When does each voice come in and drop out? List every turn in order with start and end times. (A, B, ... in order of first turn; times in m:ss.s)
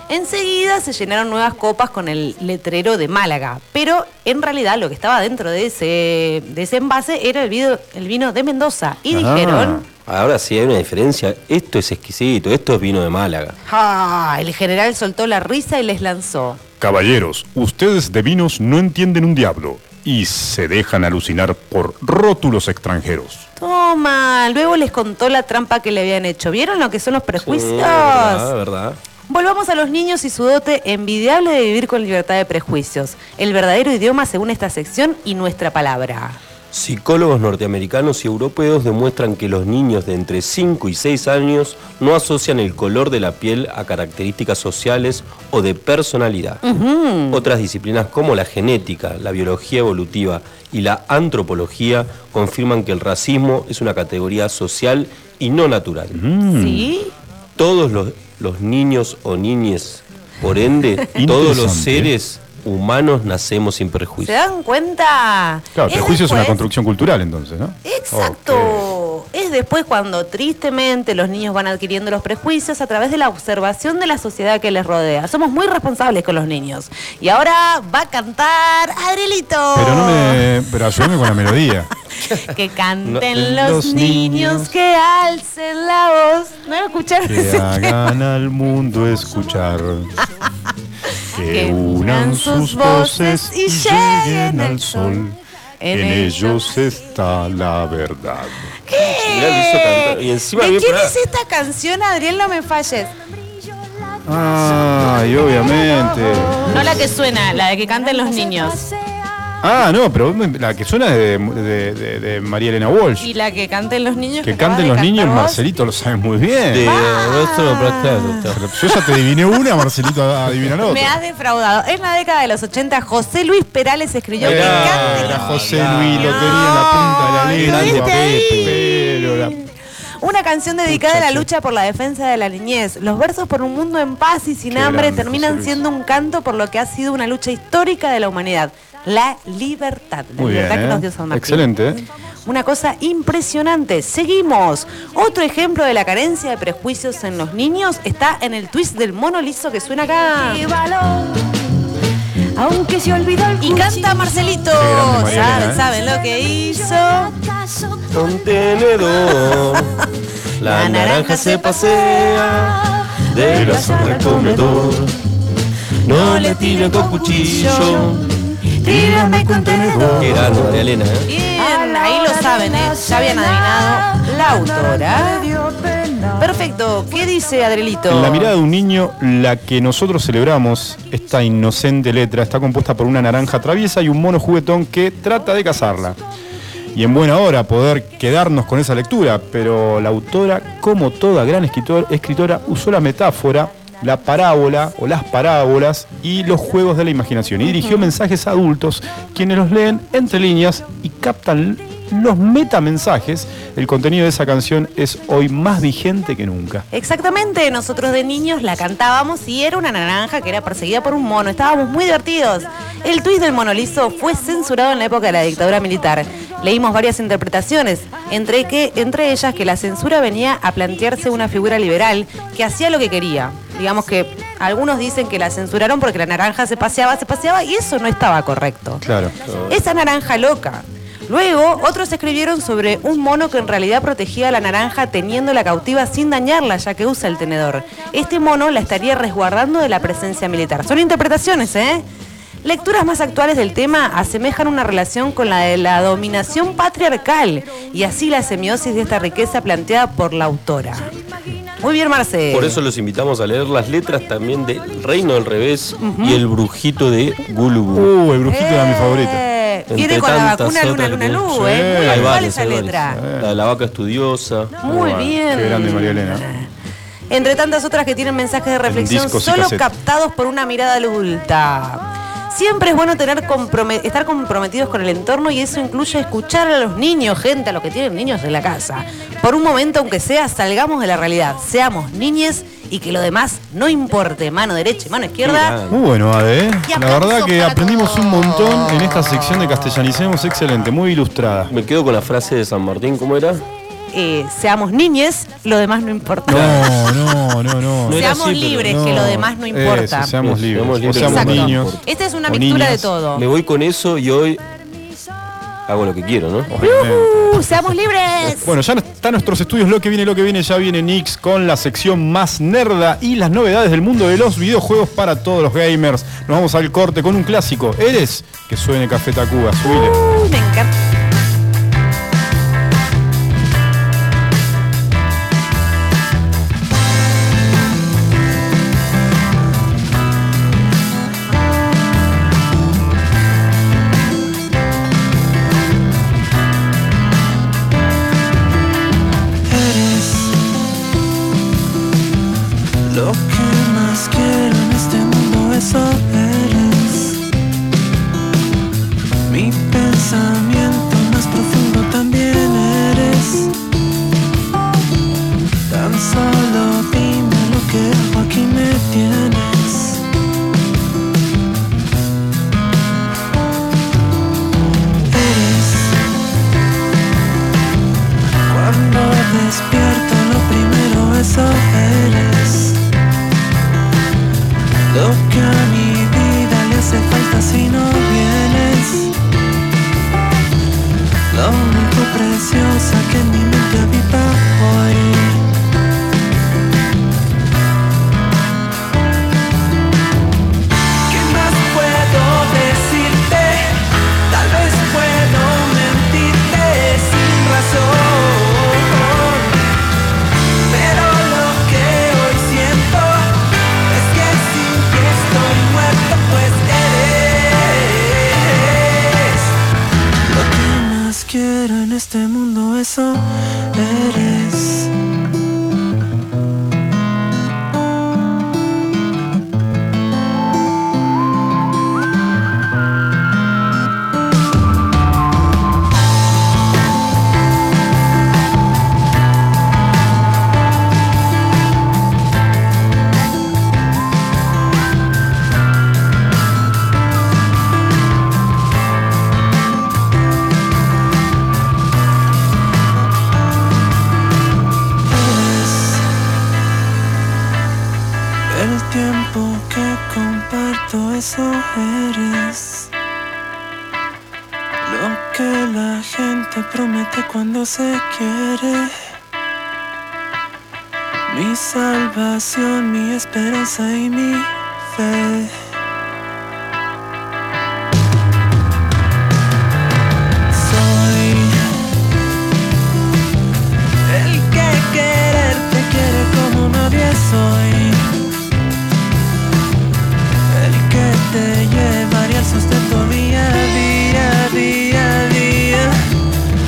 0:00.1-0:09.8 A
0:09.1-0:09.8 B
0:10.1-0:13.6 C
0:13.7-0:16.6 A
0:16.8-0:23.5 B
0:23.6-0:28.5 A
0:27.4-0:29.0 C
0:29.3-0:36.4 A
0:36.7-0:46.6 C
0:46.6-0:47.4 A
0:47.3-0:56.2 C
0:56.1-0:56.9 B
0:56.5-0:57.1 A
0:57.6-1:04.4 C
1:01.2-1:02.1 B
1:04.2-1:06.6 A
1:05.8-1:08.9 B
1:07.8-1:20.5 A
1:19.8-1:21.9 B
1:22.3-1:28.1 A
1:23.2-1:24.8 B
1:27.2-1:30.1 B
1:31.3-1:35.4 B
1:31.4-1:35.2 A
1:35.8-1:36.8 A
1:35.9-1:38.8 B
1:38.9-1:43.1 A
1:39.0-1:41.2 C
1:44.2-1:47.1 B
1:46.6-1:48.8 A
1:49.6-1:53.3 B
1:53.2-1:55.6 A
1:54.4-1:56.9 B
1:56.7-1:58.6 C
1:56.8-1:59.2 A
1:58.5-2:01.2 B
2:00.8-2:09.7 A
2:04.4-2:06.8 C
2:04.4-2:09.6 B
2:07.6-2:08.8 C
2:10.2-2:30.6 A
2:10.9-2:11.5 B
2:14.7-2:15.8 B
2:20.4-2:22.0 B
2:30.4-2:31.5 D
2:32.6-2:34.7 D
2:33.6-2:37.3 A
2:34.7-2:35.8 B
2:36.9-2:38.0 D
2:38.1-2:40.0 C
2:39.4-2:40.0 A
2:40.6-2:42.5 A
2:40.6-2:45.2 C
2:43.4-2:45.0 B
2:43.6-2:45.0 A
2:46.0-2:48.2 C
2:46.1-2:48.2 A
2:46.3-2:48.1 D
2:48.8-2:50.2 D
2:48.8-2:50.9 B
2:50.2-2:51.3 C
2:51.3-2:55.5 A
2:51.3-2:56.7 D
2:56.4-2:58.5 A
2:58.1-3:06.2 B
3:06.9-3:26.8 B
3:17.7-3:18.1 A
3:26.9-3:49.0 A
3:49.0-3:49.3 B
3:49.4-3:49.8 C
3:49.7-4:02.0 A
4:02.6-4:11.1 A
4:11.8-4:12.8 A
4:12.5-4:18.1 C
4:16.0-4:16.4 A
4:18.0-4:19.4 B
4:18.5-4:23.2 A
4:19.9-4:24.9 C
4:21.5-4:22.5 B
4:23.1-4:23.5 B
4:24.8-4:26.7 A
4:24.9-4:26.5 B
4:27.3-4:45.8 A
4:28.9-4:29.9 B
4:45.4-4:46.0 C
4:45.9-4:51.7 B
4:46.9-4:49.9 A
4:51.7-4:53.6 C
4:54.1-4:57.2 A
4:56.5-5:03.1 B
4:56.5-4:56.9 C
4:58.0-4:59.1 C
4:58.1-5:00.4 A
5:00.4-5:02.0 C
5:01.1-5:03.4 A
5:03.4-5:04.6 C
5:05.9-5:06.7 C
5:06.7-5:08.0 B
5:06.8-5:08.7 A
5:08.5-5:20.3 B
5:19.8-5:20.9 A
5:39.7-5:40.6 E
5:43.1-5:47.4 E
5:49.5-5:53.7 E
5:55.9-6:00.2 E
6:05.3-6:06.2 E
6:08.7-6:13.0 E
6:15.1-6:19.4 E
6:21.5-6:25.6 E
6:31.3-6:34.0 E
6:34.5-6:39.7 E
6:40.9-6:43.5 E
6:44.1-6:49.6 E
6:50.5-6:55.1 E
7:25.3-7:26.2 E
7:28.7-7:33.1 E
7:35.0-7:39.2 E
7:41.5-7:45.7 E
7:50.7-7:51.8 E
7:54.3-7:58.3 E
8:00.7-8:06.3 E